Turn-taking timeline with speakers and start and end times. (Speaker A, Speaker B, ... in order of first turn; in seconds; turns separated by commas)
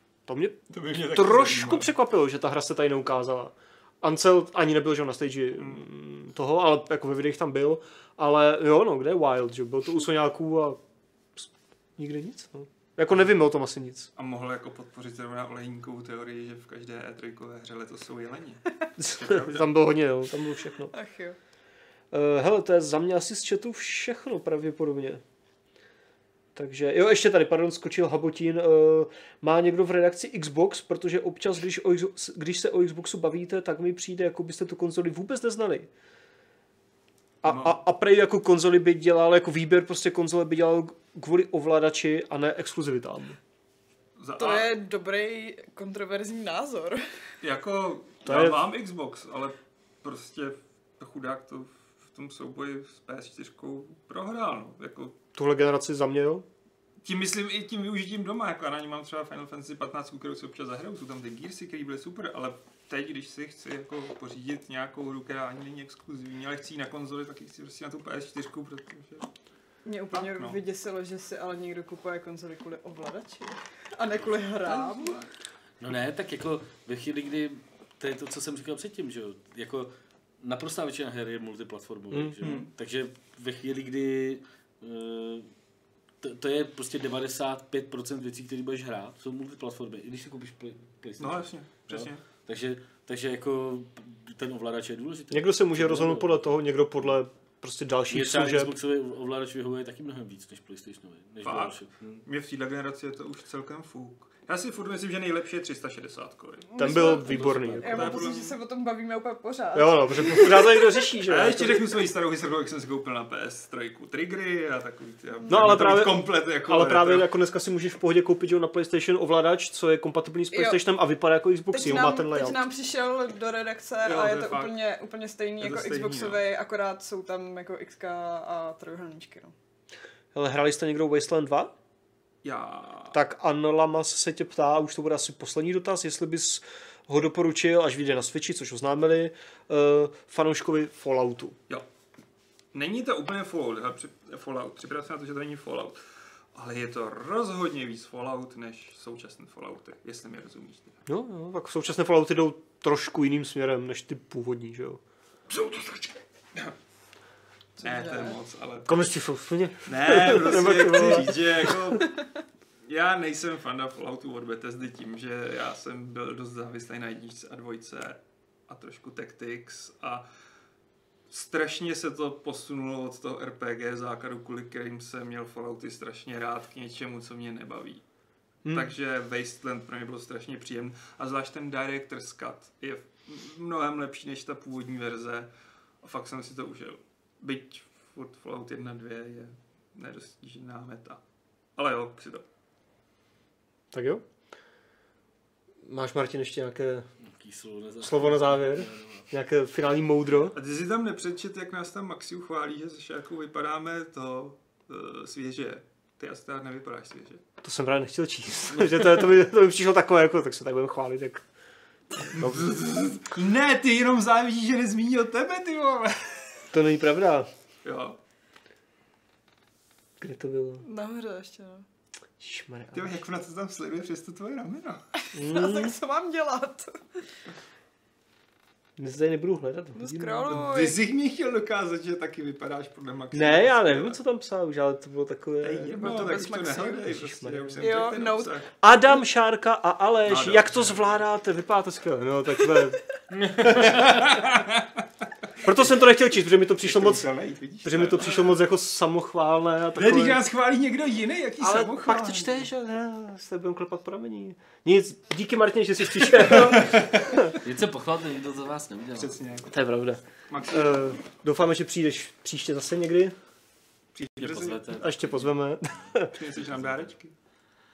Speaker A: 0.3-10.8, Speaker B: 0.7-1.9, Speaker B: 5.6-5.8, Speaker A: 11.4-14.1, Speaker B: 14.2-19.7, Speaker A: 19.0-20.9, Speaker C: 20.9-21.4, Speaker A: 22.1-25.2, Speaker A: 26.6-35.9, Speaker A: 37.4-43.4, Speaker B: 37.4-37.8, Speaker B: 44.2-44.7, Speaker C: 44.4-47.0, Speaker B: 47.4-55.2, Speaker A: 48.2-48.6, Speaker A: 55.4-56.5, Speaker B: 57.0-69.3, Speaker C: 69.8-75.2, Speaker B: 70.1-70.6, Speaker B: 74.7-75.3, Speaker D: 75.8-85.5, Speaker A: 82.1-82.7, Speaker D: 86.2-96.5, Speaker B: 91.2-92.2, Speaker A: 95.3-98.7, Speaker D: 98.1-102.2, Speaker B: 101.4-108.6, Speaker C: 106.7-111.1, Speaker A: 106.8-108.1, Speaker D: 107.0-108.1, Speaker A: 109.8-112.0, Speaker B: 111.2-117.3, Speaker C: 115.5-115.7, Speaker A: 115.5-122.6, Speaker C: 120.5-120.8, Speaker C: 121.7-129.5, Speaker B: 124.0-124.8, Speaker B: 125.6-126.4, Speaker A: 130.3-131.7, Speaker B: 132.4-133.2, Speaker A: 133.1-141.6, Speaker B: 142.7-146.0, Speaker B: 146.5-151.0, Speaker A: 151.1-155.0, Speaker B: 155.5-156.7, Speaker C: 157.8-158.4, Speaker B: 157.8-159.1, Speaker A: 158.9-162.0, Speaker B: 159.9-162.1, Speaker B: 162.8-170.2, Speaker B: 171.3-178.0, Speaker A: 178.7-178.9, Speaker B: 178.7-185.5, Speaker B: 186.0-191.2, Speaker B: 191.8-192.5, Speaker A: 193.9-194.2, Speaker A: 195.8-197.1, Speaker D: 197.2-199.3, Speaker A: 198.0-200.6, Speaker B: 200.5-207.4, Speaker A: 207.6-211.4, Speaker B: 212.3-216.6, Speaker A: 212.3-212.7, Speaker A: 216.7-217.5, Speaker B: 217.8-218.2, Speaker A: 220.2-220.8, Speaker C: 220.8-221.8, Speaker A: 222.4-223.2, Speaker B: 222.9-225.0, Speaker C: 225.3-226.9, Speaker A: 225.3-225.9, Speaker A: 229.0-230.7, Speaker C: 230.0-231.0, Speaker B: 230.5-234.2, Speaker A: 233.3-236.3, Speaker B: 235.6-238.7, Speaker C: 235.9-237.1, Speaker A: 237.1-238.1, Speaker C: 237.8-238.6, Speaker A: 238.8-243.0, Speaker B: 240.3-241.2, Speaker D: 243.3-244.2, Speaker B: 243.7-245.9, Speaker A: 245.6-247.3, Speaker B: 246.8-248.6, Speaker A: 247.8-250.4, Speaker B: 250.0-252.7, Speaker A: 251.6-257.6, Speaker B: 256.4-257.0, Speaker D: 257.5-259.4, Speaker B: 259.2-259.7, Speaker A: 259.7-263.4, Speaker B: 260.5-261.1, Speaker B: 264.1-264.9, Speaker D: 264.4-265.5, Speaker A: 265.0-266.4, Speaker B: 266.3-267.3, Speaker D: 266.6-267.1